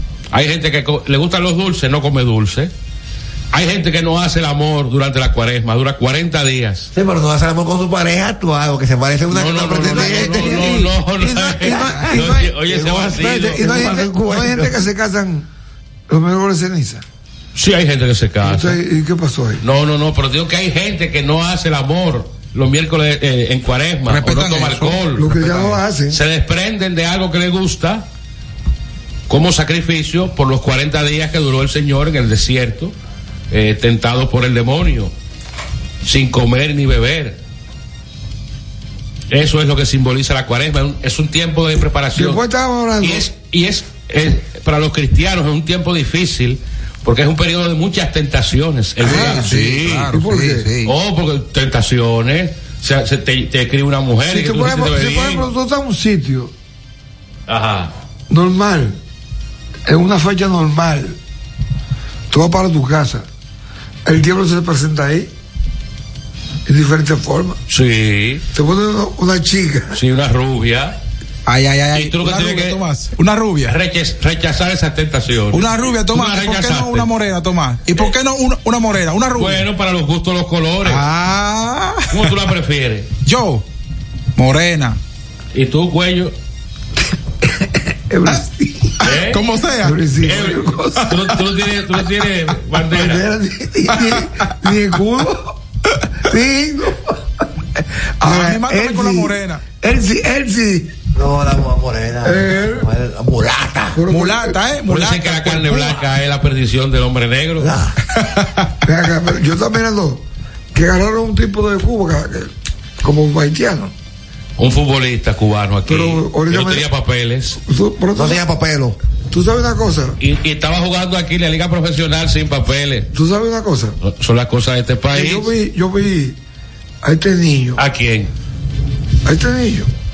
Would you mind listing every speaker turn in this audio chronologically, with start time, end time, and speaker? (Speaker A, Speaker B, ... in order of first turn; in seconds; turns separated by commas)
Speaker A: 0.3-2.7, Speaker A: 3.5-6.9, Speaker B: 6.9-14.8, Speaker A: 9.3-13.6, Speaker C: 10.0-15.4, Speaker C: 16.1-17.0, Speaker A: 17.5-18.8, Speaker C: 18.4-19.6, Speaker A: 19.6-25.3, Speaker D: 24.1-25.8, Speaker C: 25.1-26.2, Speaker A: 26.1-28.1, Speaker A: 29.3-32.9, Speaker A: 33.5-35.1, Speaker A: 36.0-37.4, Speaker A: 39.3-42.4, Speaker C: 42.1-43.3, Speaker A: 43.0-50.1, Speaker D: 49.0-50.9, Speaker C: 49.0-49.5, Speaker C: 50.1-50.7, Speaker A: 50.8-55.5, Speaker C: 54.3-56.5, Speaker A: 57.5-57.9, Speaker C: 58.3-59.0, Speaker C: 59.9-61.2, Speaker C: 62.3-63.2, Speaker C: 64.0-65.3, Speaker C: 66.7-67.6, Speaker A: 67.7-68.4, Speaker C: 68.5-70.0, Speaker A: 69.9-71.0, Speaker D: 71.5-73.8, Speaker A: 71.9-72.8, Speaker A: 73.7-77.1, Speaker D: 75.5-79.6, Speaker A: 79.4-81.0, Speaker D: 80.8-82.3, Speaker A: 82.1-83.1, Speaker D: 83.2-83.6, Speaker D: 84.3-85.0, Speaker A: 85.5-86.3, Speaker C: 88.1-89.0, Speaker A: 89.0-89.4, Speaker D: 89.1-90.0, Speaker C: 89.8-91.2, Speaker A: 90.2-93.2, Speaker C: 92.9-95.5, Speaker D: 93.9-94.2, Speaker C: 96.2-97.2, Speaker C: 98.2-100.9, Speaker D: 98.2-99.6, Speaker B: 101.1-104.0, Speaker C: 102.2-102.9, Speaker C: 103.9-104.6, Speaker D: 104.1-106.0, Speaker A: 104.9-107.7, Speaker B: 107.6-108.0, Speaker D: 108.2-108.7, Speaker C: 108.8-113.9, Speaker A: 114.6-117.6, Speaker C: 115.9-116.8, Speaker C: 117.6-118.4, Speaker B: 118.1-119.0, Speaker C: 119.3-120.2, Speaker A: 120.2-123.1, Speaker C: 123.1-124.0, Speaker A: 124.0-125.5, Speaker C: 125.1-126.4, Speaker C: 127.0-127.8, Speaker A: 127.8-128.3, Speaker C: 129.2-129.9